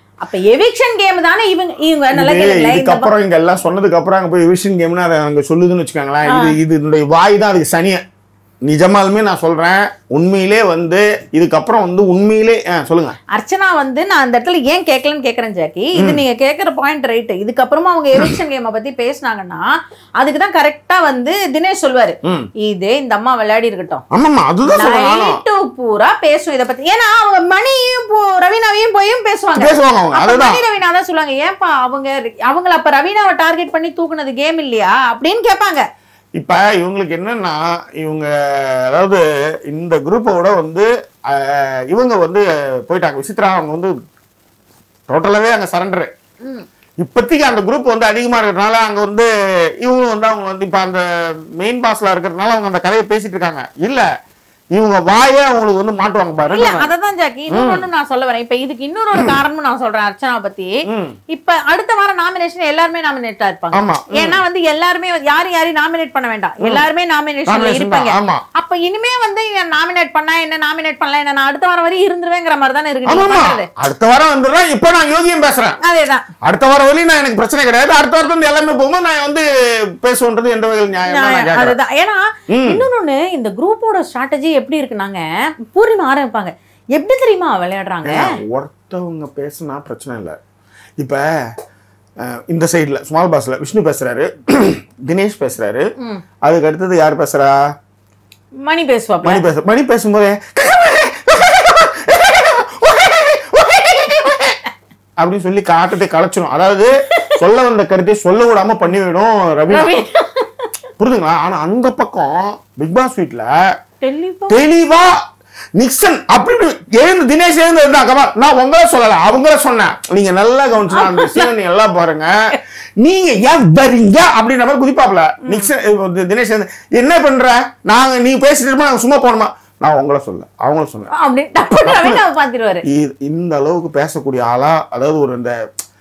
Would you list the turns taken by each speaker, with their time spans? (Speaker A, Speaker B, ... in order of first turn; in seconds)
Speaker A: 0.2-3.1, 6.3-6.6, 13.3-24.0, 24.8-35.9, 56.5-73.7, 75.8-76.3, 81.1-88.3, 96.0-96.2, 98.6-99.4, 109.7-110.7, 114.0-114.6, 120.9-121.5, 125.5-125.7, 131.1-132.8
Speaker B: 2.1-8.0, 8.7-13.2, 16.0-16.2, 22.2-22.5, 24.1-25.4, 29.6-30.6, 36.4-43.9, 45.1-46.1, 47.0-49.3, 49.8-54.1, 54.7-56.9, 57.5-57.8, 60.9-61.2, 63.7-64.4, 67.5-68.4, 73.1-75.8, 76.4-79.5, 80.0-81.8, 82.5-82.8, 88.0-90.4, 91.0-91.2, 92.2-95.9, 96.4-97.6, 99.2-104.6, 105.2-110.1, 111.0-113.5, 114.5-115.2, 115.8-131.1, 131.8-132.2, 132.8-135.6